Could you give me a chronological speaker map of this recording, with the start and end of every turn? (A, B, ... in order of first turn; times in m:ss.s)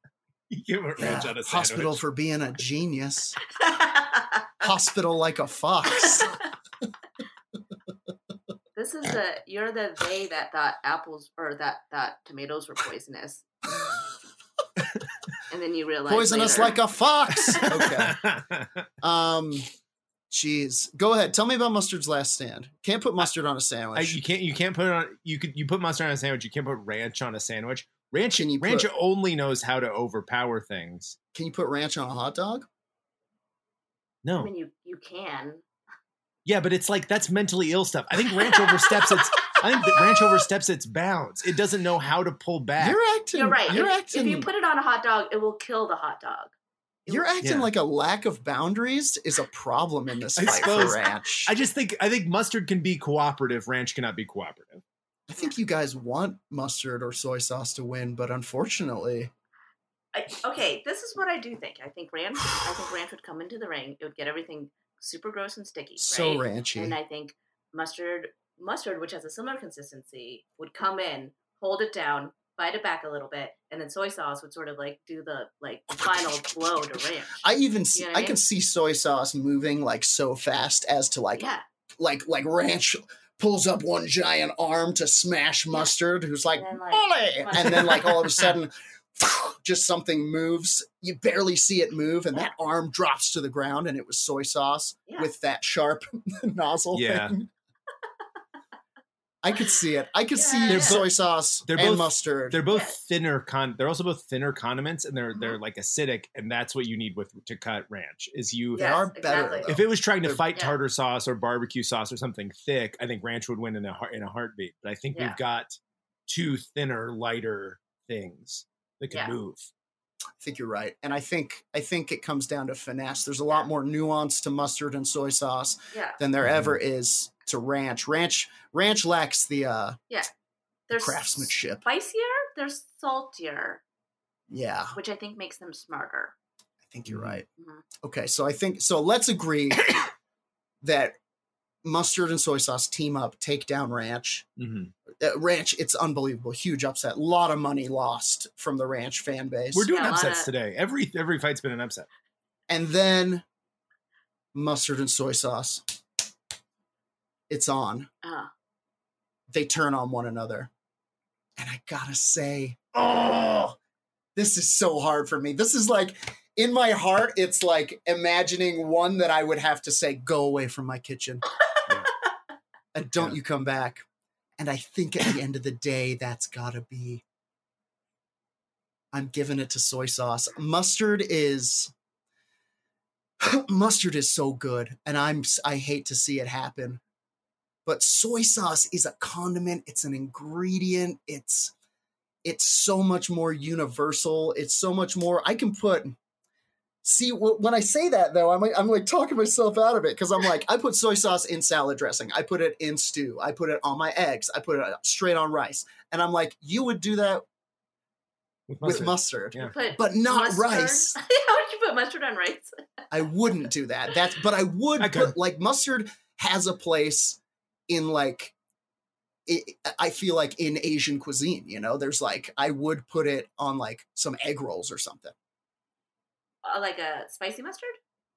0:00.5-0:02.0 A
0:01.0-0:03.4 B
0:03.6-0:04.5 C
0:04.6-0:06.4 B
0:06.0-0:06.4 C
0:08.8-0:13.4 C
0:15.5-0:16.8 C
0:16.1-0:18.2 B
0:17.4-0:18.8 A
0:19.0-0:19.7 B
0:20.3-0:24.2 B
0:24.0-0:31.2 A
0:28.3-0:28.9 B
0:31.3-0:32.7 B
0:34.2-0:34.5 A
0:34.4-0:35.6 C
0:36.5-0:43.0 A
0:38.4-0:40.0 C
0:42.8-0:44.5 B
0:43.3-0:46.5 C
0:47.1-0:51.5 B
0:47.4-0:47.7 A
0:50.4-0:54.8 A
0:50.4-0:50.9 C
0:55.3-0:59.3 B
1:00.1-1:18.4 C
1:06.0-1:07.0 B
1:15.9-1:21.5 B
1:21.4-1:21.6 C
1:22.0-1:37.5 B
1:26.6-1:28.2 C
1:36.9-1:37.4 A
1:39.4-1:42.6 B
1:40.3-1:41.0 C
1:40.7-1:41.1 A
1:41.7-1:48.9 A
1:42.7-1:43.0 C
1:48.8-1:49.7 C
1:48.8-1:50.4 B
1:49.7-1:59.7 A
1:55.1-1:55.4 C
1:59.1-1:59.4 C
2:00.4-2:10.0 B
2:05.9-2:06.2 C
2:06.4-2:06.8 A
2:10.9-2:13.8 C
2:11.0-2:11.8 B
2:14.5-2:15.0 B
2:14.9-2:16.3 C
2:16.9-2:17.5 B
2:17.1-2:17.4 A
2:17.6-2:17.8 C
2:18.0-2:20.1 B
2:20.8-2:21.2 B
2:21.8-2:24.4 B
2:24.6-2:24.9 A
2:25.2-2:29.9 B
2:29.7-2:32.1 A
2:29.9-2:30.5 C
2:32.7-2:33.4 B
2:34.5-2:35.8 B
2:37.5-2:38.1 B
2:38.2-2:38.5 C
2:39.5-2:40.7 B
2:41.6-2:43.8 B
2:44.4-2:51.4 B
2:52.9-2:54.0 B
2:54.6-2:57.2 B
2:59.1-3:01.9 B
3:03.4-3:07.0 B
3:07.8-3:11.7 B
3:12.4-3:16.2 B
3:17.0-3:27.4 B
3:28.7-3:29.8 A
3:28.8-3:31.2 B
3:29.6-3:32.7 C
3:33.1-3:38.5 B
3:35.0-3:35.3 A
3:39.5-3:45.3 B
3:46.6-3:48.0 C